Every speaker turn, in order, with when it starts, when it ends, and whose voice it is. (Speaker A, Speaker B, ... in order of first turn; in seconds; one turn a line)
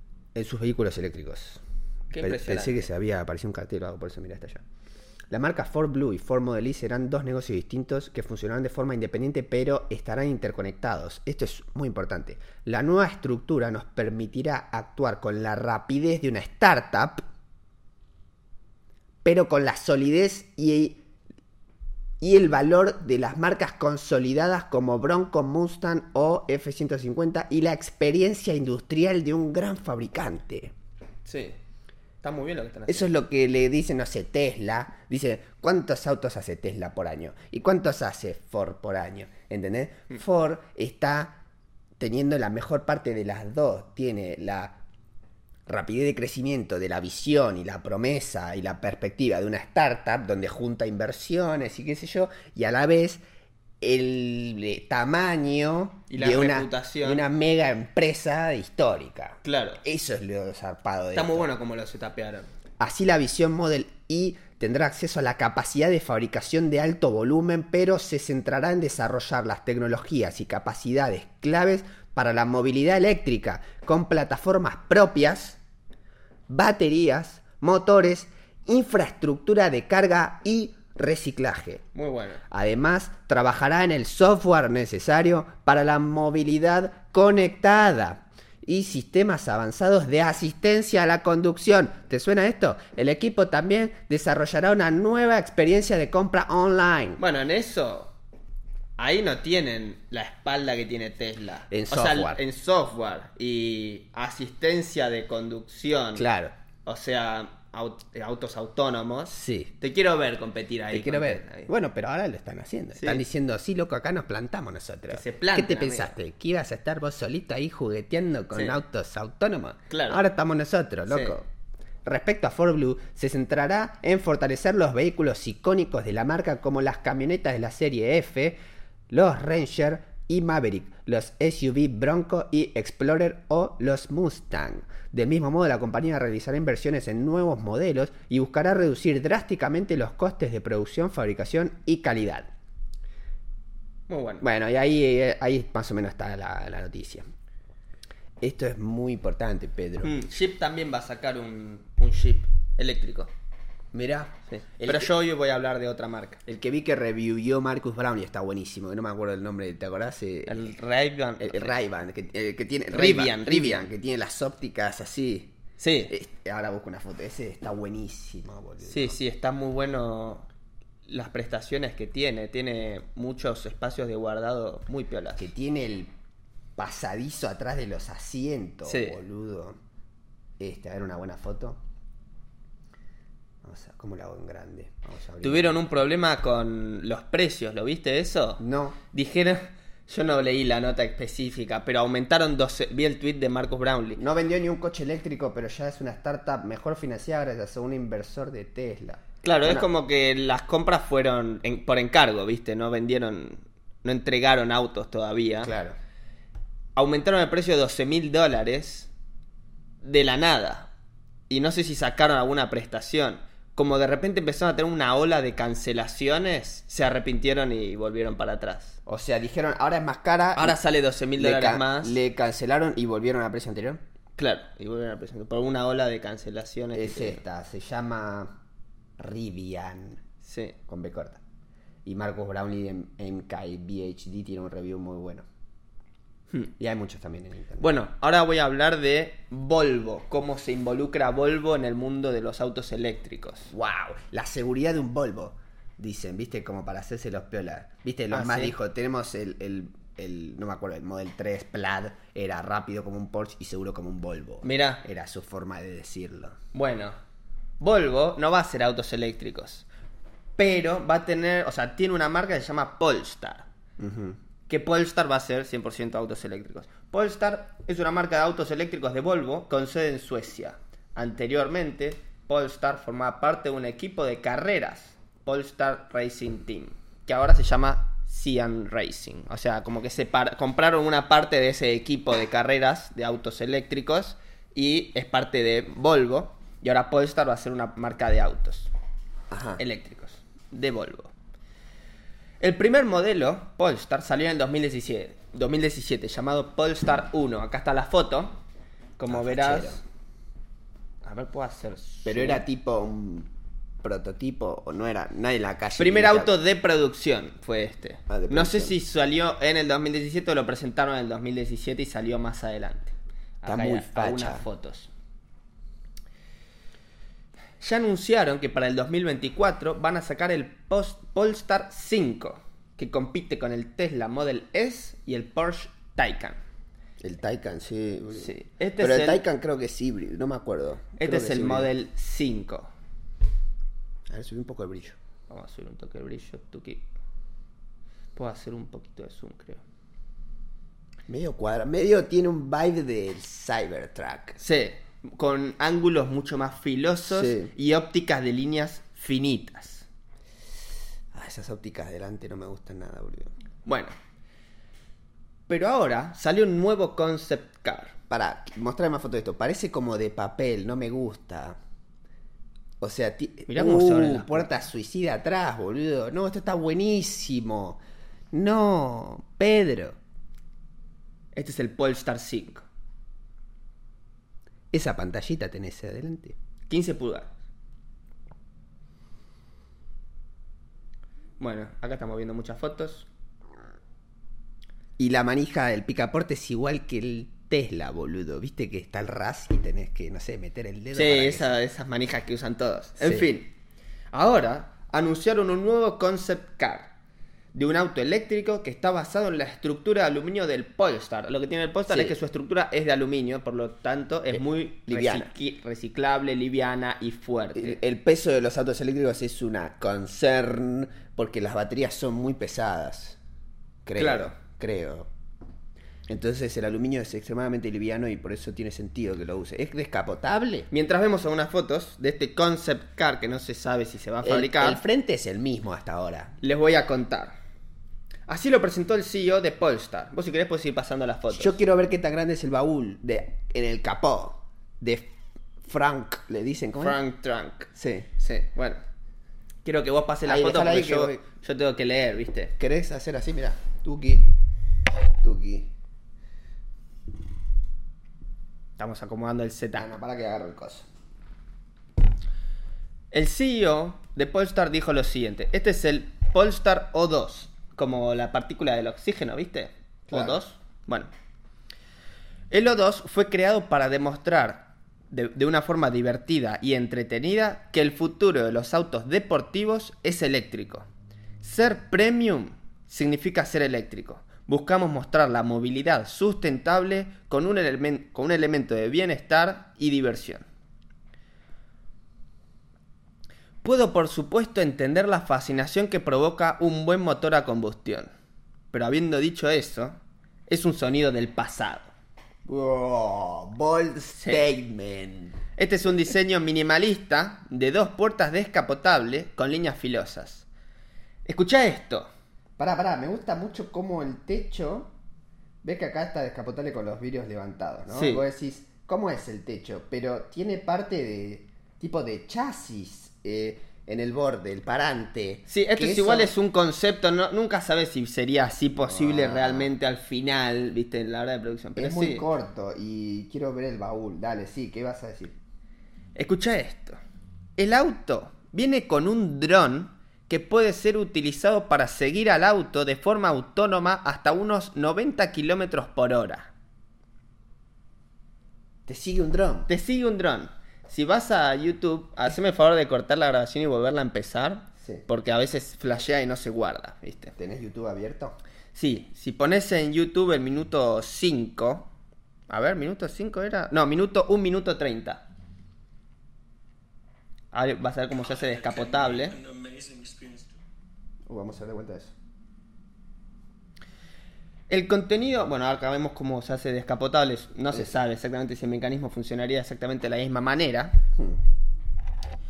Speaker A: 0.3-1.6
Speaker B: 2.1-2.9
Speaker A: 2.2-4.6
Speaker A: 5.3-17.2
Speaker A: 19.2-21.0
Speaker A: 22.2-30.7
Speaker B: 31.2-31.6
Speaker B: 32.2-33.1
Speaker A: 32.9-41.4
Speaker A: 42.0-44.8
Speaker A: 45.7-53.2
Speaker A: 53.8-61.5
Speaker B: 56.1-57.2
Speaker B: 59.4-59.8
Speaker B: 61.1-62.5
Speaker A: 62.8-75.6
Speaker A: 76.5-81.8
Speaker B: 81.9-82.4
Speaker A: 82.5-97.2
Speaker B: 97.2-98.1
Speaker B: 99.0-106.3
Speaker A: 101.7-102.4
Speaker A: 106.1-106.5
Speaker B: 106.8-111.7
Speaker A: 109.3-109.7
Speaker A: 110.9-121.4
Speaker B: 113.0-113.2
Speaker B: 115.1-116.1
Speaker B: 119.9-120.2
Speaker B: 121.1-121.3
Speaker A: 122.0-128.6
Speaker A: 129.1-142.5
Speaker B: 144.1-144.4
Speaker A: 144.4-147.2
Speaker A: 148.4-150.1
Speaker B: 150.0-153.3
Speaker A: 153.9-155.1
Speaker B: 154.5-156.4
Speaker A: 156.4-160.7
Speaker B: 160.4-161.7
Speaker A: 161.4-165.5
Speaker B: 162.9-163.8
Speaker B: 165.8-166.1
Speaker A: 166.1-169.2
Speaker B: 168.8-170.4
Speaker B: 171.1-175.5
Speaker A: 175.4-176.1
Speaker A: 176.8-179.8
Speaker B: 178.8-179.2
Speaker A: 180.6-181.8
Speaker A: 183.6-185.8
Speaker B: 185.4-194.2
Speaker A: 188.6-189.0
Speaker A: 194.2-199.9
Speaker B: 199.4-205.7
Speaker A: 205.6-205.9
Speaker B: 206.9-209.1
Speaker B: 210.0-210.9
Speaker B: 211.5-219.0
Speaker A: 219.1-220.8
Speaker B: 220.6-222.2
Speaker A: 221.3-224.0
Speaker B: 224.4-227.4
Speaker A: 226.9-228.6
Speaker A: 229.2-230.2
Speaker B: 230.4-230.8
Speaker A: 230.9-231.4
Speaker A: 232.1-235.4
Speaker A: 236.8-237.9
Speaker B: 237.8-243.7
Speaker A: 243.7-256.6
Speaker B: 248.3-248.7
Speaker B: 254.6-255.0
Speaker B: 256.7-257.2
Speaker B: 257.8-259.9
Speaker B: 260.6-263.7
Speaker A: 264.0-264.4
Speaker B: 264.7-288.9
Speaker A: 289.5-289.8
Speaker B: 289.8-291.3
Speaker B: 292.6-298.6
Speaker B: 299.2-300.0
Speaker A: 299.3-300.0
Speaker B: 301.2-302.6
Speaker A: 302.2-303.5
Speaker A: 304.0-306.5
Speaker B: 306.0-315.1
Speaker A: 308.3-308.9
Speaker A: 313.6-314.6
Speaker B: 317.8-326.6
Speaker A: 327.2-331.9
Speaker B: 328.4-329.4
Speaker B: 331.2-332.9
Speaker A: 334.3-335.1
Speaker B: 335.5-337.1
Speaker B: 338.3-339.8
Speaker A: 341.3-344.6
Speaker B: 344.6-350.1
Speaker A: 347.3-347.7
Speaker A: 351.3-353.5
Speaker B: 353.9-354.1
Speaker B: 355.7-358.1
Speaker A: 358.3-361.8
Speaker A: 363.0-368.0
Speaker B: 363.7-364.7
Speaker A: 368.5-370.2
Speaker B: 371.5-372.8
Speaker A: 374.9-376.5
Speaker B: 376.9-377.5
Speaker B: 381.6-383.3
Speaker A: 385.2-391.8
Speaker B: 391.1-393.7
Speaker A: 393.2-393.5
Speaker B: 394.3-397.1
Speaker B: 397.7-408.0
Speaker A: 402.1-402.3
Speaker A: 404.5-405.5
Speaker A: 407.7-413.4
Speaker A: 414.1-415.3
Speaker B: 414.2-414.5
Speaker A: 416.3-420.9
Speaker B: 420.9-425.0
Speaker A: 424.4-426.6
Speaker B: 426.6-427.6
Speaker B: 428.5-431.8
Speaker A: 431.5-437.2
Speaker B: 437.0-439.0
Speaker A: 437.9-438.3
Speaker B: 439.8-442.7
Speaker A: 440.4-441.4
Speaker A: 442.8-444.5
Speaker A: 445.4-445.9
Speaker B: 449.0-450.1
Speaker A: 449.9-451.1
Speaker B: 453.3-461.3
Speaker A: 460.3-460.6
Speaker B: 462.7-471.1
Speaker B: 471.6-480.6
Speaker B: 483.8-488.3
Speaker B: 488.9-490.2
Speaker B: 490.7-492.1
Speaker A: 492.6-495.6
Speaker B: 495.8-500.6
Speaker B: 501.4-502.3
Speaker A: 502.8-505.1
Speaker A: 505.8-516.5
Speaker B: 508.1-508.4
Speaker B: 515.7-522.5
Speaker A: 519.0-519.9
Speaker A: 522.0-525.6
Speaker B: 526.4-527.2
Speaker B: 527.8-536.7
Speaker A: 539.1-539.9
Speaker B: 539.9-547.5
Speaker A: 547.5-548.6
Speaker B: 548.9-552.1
Speaker B: 552.7-555.4
Speaker B: 557.7-559.6
Speaker C: 558.5-560.8
Speaker A: 561.5-562.3
Speaker B: 564.9-571.2